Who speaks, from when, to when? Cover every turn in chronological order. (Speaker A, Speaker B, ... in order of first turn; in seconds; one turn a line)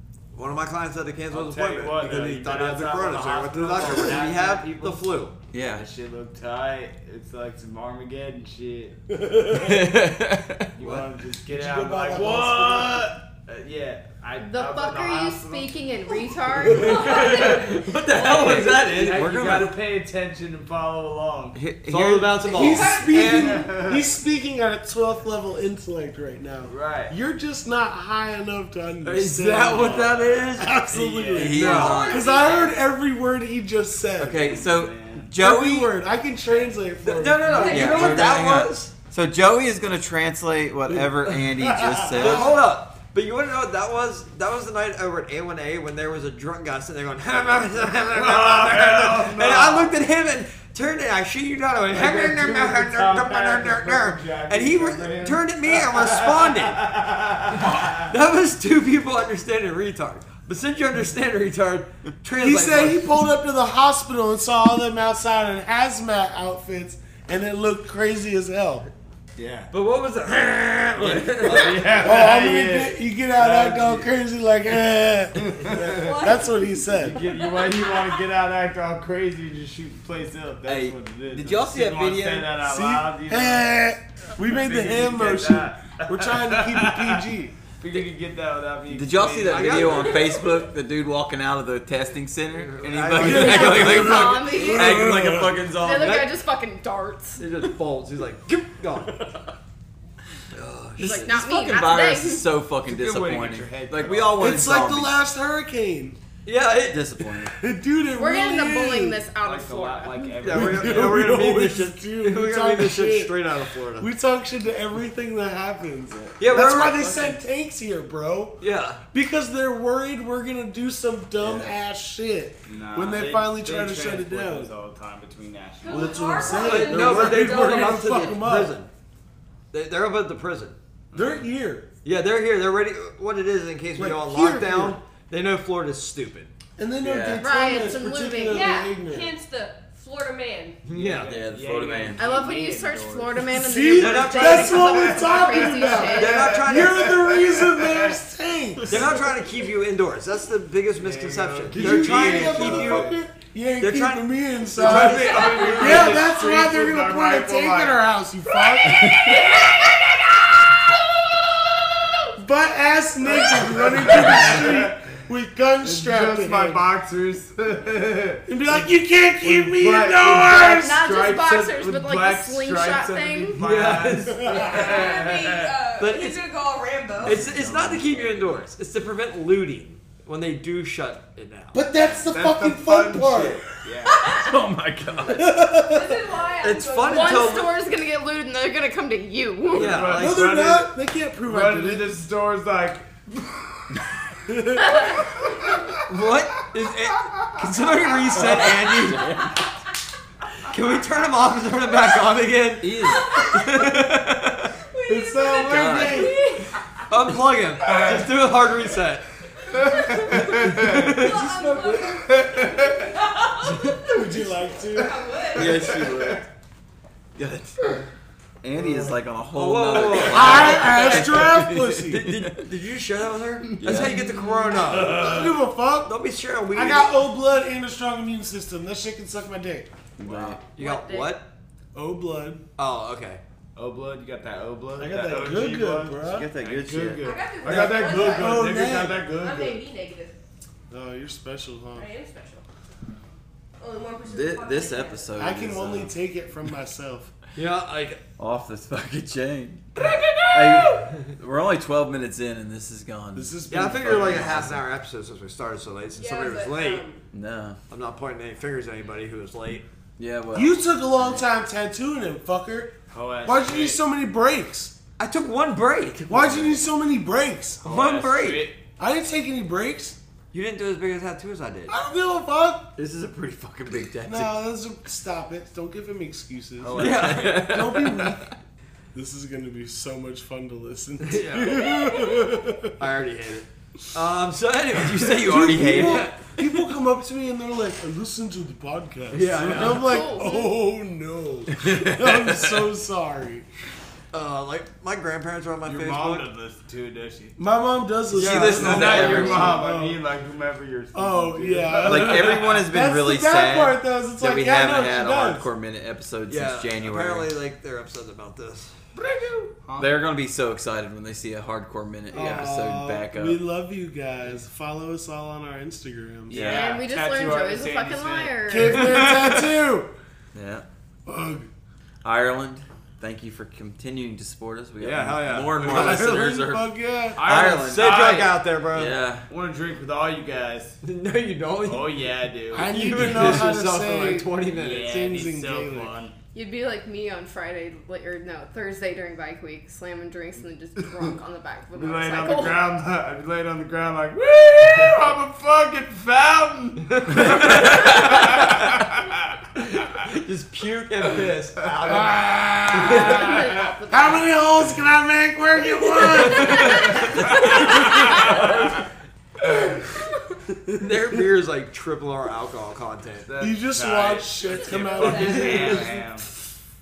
Speaker A: 0.3-5.3
Speaker B: 1.3-5.1
Speaker C: 5.5-5.8
Speaker B: 5.7-9.0
Speaker D: 9.1-9.9
Speaker C: 9.5-11.0
Speaker B: 10.8-15.8
Speaker D: 11.4-13.2
Speaker E: 14.4-17.3
Speaker B: 16.6-21.6
Speaker F: 16.8-17.6
Speaker A: 17.0-19.3
Speaker C: 18.1-19.8
Speaker C: 21.5-22.4
Speaker A: 21.8-23.6
Speaker D: 22.5-34.6
Speaker F: 22.5-23.6
Speaker B: 23.1-24.1
Speaker B: 26.6-27.1
Speaker A: 29.0-30.8
Speaker B: 29.7-31.6
Speaker C: 31.3-32.3
Speaker A: 31.3-32.4
Speaker F: 31.6-32.8
Speaker C: 34.2-35.9
Speaker B: 34.5-35.3
Speaker D: 35.4-38.3
Speaker A: 37.0-38.9
Speaker F: 37.5-38.4
Speaker C: 37.6-42.6
Speaker A: 42.1-56.9
Speaker B: 48.1-49.9
Speaker B: 51.9-58.1
Speaker A: 57.6-63.1
Speaker D: 62.4-68.9
Speaker B: 69.3-69.7
Speaker A: 69.7-72.4
Speaker B: 70.9-74.1
Speaker D: 72.0-77.2
Speaker B: 75.3-76.3
Speaker F: 75.9-78.2
Speaker B: 76.9-83.7
Speaker C: 80.7-82.6
Speaker D: 82.6-87.5
Speaker B: 84.5-87.2
Speaker B: 87.8-90.2
Speaker C: 88.9-96.2
Speaker A: 89.4-90.4
Speaker A: 92.5-94.3
Speaker B: 92.8-94.2
Speaker E: 93.2-97.4
Speaker D: 94.3-95.6
Speaker A: 96.0-96.3
Speaker A: 97.4-99.2
Speaker A: 100.5-101.3
Speaker E: 101.0-102.5
Speaker C: 101.0-105.2
Speaker B: 102.8-104.6
Speaker D: 104.4-106.2
Speaker A: 106.4-107.1
Speaker C: 106.8-107.5
Speaker D: 107.6-109.2
Speaker E: 108.1-110.4
Speaker B: 109.4-111.3
Speaker A: 110.4-114.1
Speaker D: 110.4-113.4
Speaker D: 114.0-118.6
Speaker A: 116.4-117.3
Speaker A: 118.6-119.0
Speaker D: 119.1-124.7
Speaker C: 121.4-121.7
Speaker B: 122.7-126.5
Speaker F: 125.8-128.4
Speaker D: 125.8-128.8
Speaker A: 126.5-128.9
Speaker A: 129.7-130.8
Speaker B: 131.1-131.5
Speaker D: 131.1-131.9
Speaker A: 132.0-136.5
Speaker D: 133.9-135.0
Speaker D: 136.8-139.3
Speaker C: 137.0-137.4
Speaker E: 137.4-138.8
Speaker F: 138.5-140.8
Speaker A: 140.8-141.3
Speaker B: 140.9-143.5
Speaker C: 141.2-142.2
Speaker E: 142.2-146.5
Speaker D: 143.5-149.2
Speaker A: 143.9-145.0
Speaker B: 144.9-148.2
Speaker A: 146.0-147.3
Speaker A: 148.9-153.1
Speaker B: 151.0-153.2
Speaker D: 151.7-159.8
Speaker A: 153.8-156.3
Speaker B: 154.8-158.0
Speaker F: 155.1-155.9
Speaker C: 159.0-159.3
Speaker F: 159.2-159.9
Speaker D: 162.3-166.8
Speaker B: 163.3-165.2
Speaker B: 165.8-168.4
Speaker D: 168.5-171.1
Speaker B: 169.4-175.7
Speaker E: 170.6-173.6
Speaker A: 173.6-175.0
Speaker D: 174.4-174.7
Speaker F: 174.4-177.5
Speaker A: 176.0-176.4
Speaker A: 177.2-181.8
Speaker B: 177.2-178.6
Speaker C: 177.4-177.9
Speaker D: 181.7-183.6
Speaker B: 181.9-184.3
Speaker F: 184.1-184.6
Speaker C: 184.2-185.5
Speaker D: 185.3-186.3
Speaker F: 185.7-187.7
Speaker A: 186.6-187.7
Speaker E: 187.1-190.0
Speaker A: 189.7-190.4
Speaker B: 189.7-190.9
Speaker D: 190.0-192.2
Speaker B: 191.4-193.2
Speaker D: 194.4-195.9
Speaker A: 196.0-199.4
Speaker C: 198.4-199.6
Speaker A: 200.7-204.7
Speaker C: 202.8-203.3
Speaker F: 203.0-203.8
Speaker F: 204.9-206.8
Speaker D: 205.1-206.6
Speaker C: 205.6-206.3
Speaker A: 207.1-209.2
Speaker F: 209.8-210.3
Speaker B: 209.9-211.2
Speaker A: 210.3-211.4
Speaker D: 211.2-212.3
Speaker F: 211.2-215.9
Speaker B: 212.2-213.1
Speaker D: 214.0-215.2
Speaker C: 215.5-216.5
Speaker B: 215.7-216.4
Speaker C: 217.3-218.0
Speaker C: 218.6-222.6
Speaker D: 218.8-219.1
Speaker A: 219.5-225.5
Speaker D: 220.2-222.2
Speaker B: 223.7-224.2
Speaker C: 223.8-224.2
Speaker B: 224.8-225.5
Speaker D: 224.9-226.1
Speaker A: 226.0-227.2
Speaker D: 226.7-229.9
Speaker C: 230.2-230.6
Speaker B: 230.2-230.6
Speaker A: 230.7-231.5
Speaker F: 230.8-231.3
Speaker D: 231.9-232.7
Speaker A: 232.8-233.4
Speaker B: 233.7-239.8
Speaker D: 235.0-236.5
Speaker C: 236.2-237.3
Speaker F: 237.2-240.4
Speaker D: 238.1-239.3
Speaker D: 240.9-242.1
Speaker F: 241.9-242.6
Speaker F: 243.8-245.4
Speaker C: 244.2-246.1
Speaker D: 245.4-247.3
Speaker A: 247.6-248.2
Speaker C: 248.4-254.7
Speaker F: 250.0-250.9
Speaker A: 250.8-251.2
Speaker D: 253.3-254.8
Speaker A: 253.7-257.0
Speaker F: 256.1-257.2
Speaker C: 257.3-257.8
Speaker A: 257.9-259.8
Speaker C: 260.2-261.4
Speaker D: 260.5-264.9
Speaker B: 263.1-264.0
Speaker A: 265.2-266.8
Speaker D: 266.3-267.8
Speaker B: 267.8-268.8
Speaker A: 267.8-268.7
Speaker D: 269.0-270.2
Speaker A: 270.5-271.9
Speaker D: 271.9-272.9
Speaker C: 273.0-274.5
Speaker D: 274.2-278.5
Speaker C: 276.8-278.4
Speaker A: 276.9-277.9
Speaker D: 279.1-283.0
Speaker A: 281.2-282.1
Speaker A: 283.0-286.4
Speaker C: 285.2-286.4
Speaker D: 285.3-293.7
Speaker A: 289.3-290.3
Speaker E: 289.9-290.8
Speaker C: 291.8-292.8
Speaker A: 294.3-296.5
Speaker B: 295.8-297.6
Speaker D: 297.6-300.2
Speaker A: 298.3-299.8
Speaker C: 298.3-299.9
Speaker B: 298.7-302.8
Speaker D: 301.1-305.7
Speaker C: 302.0-307.5
Speaker A: 306.5-309.1
Speaker B: 309.8-310.1
Speaker C: 309.9-313.6
Speaker D: 312.3-316.8
Speaker B: 316.5-319.5
Speaker C: 316.5-316.9
Speaker E: 316.6-319.2
Speaker D: 318.7-320.1
Speaker A: 319.1-319.4
Speaker C: 320.5-320.8
Speaker D: 321.2-321.7
Speaker C: 322.2-328.2
Speaker A: 325.0-326.3
Speaker B: 325.0-326.1
Speaker D: 325.8-327.4
Speaker B: 327.4-328.6
Speaker A: 327.6-329.1
Speaker C: 328.9-329.5
Speaker B: 329.5-331.0
Speaker A: 331.0-335.1
Speaker B: 331.8-333.6
Speaker D: 332.7-334.5
Speaker B: 334.7-336.3
Speaker D: 335.1-336.1
Speaker E: 336.5-342.9
Speaker B: 341.9-349.6
Speaker A: 344.8-345.3
Speaker A: 347.2-348.6
Speaker A: 349.8-353.6
Speaker D: 352.1-358.6
Speaker B: 353.1-353.9
Speaker E: 353.2-354.4
Speaker A: 356.1-357.6
Speaker B: 356.8-358.8
Speaker A: 360.9-363.5
Speaker B: 363.5-366.5
Speaker D: 363.6-366.0
Speaker F: 365.1-366.1
Speaker A: 365.2-366.1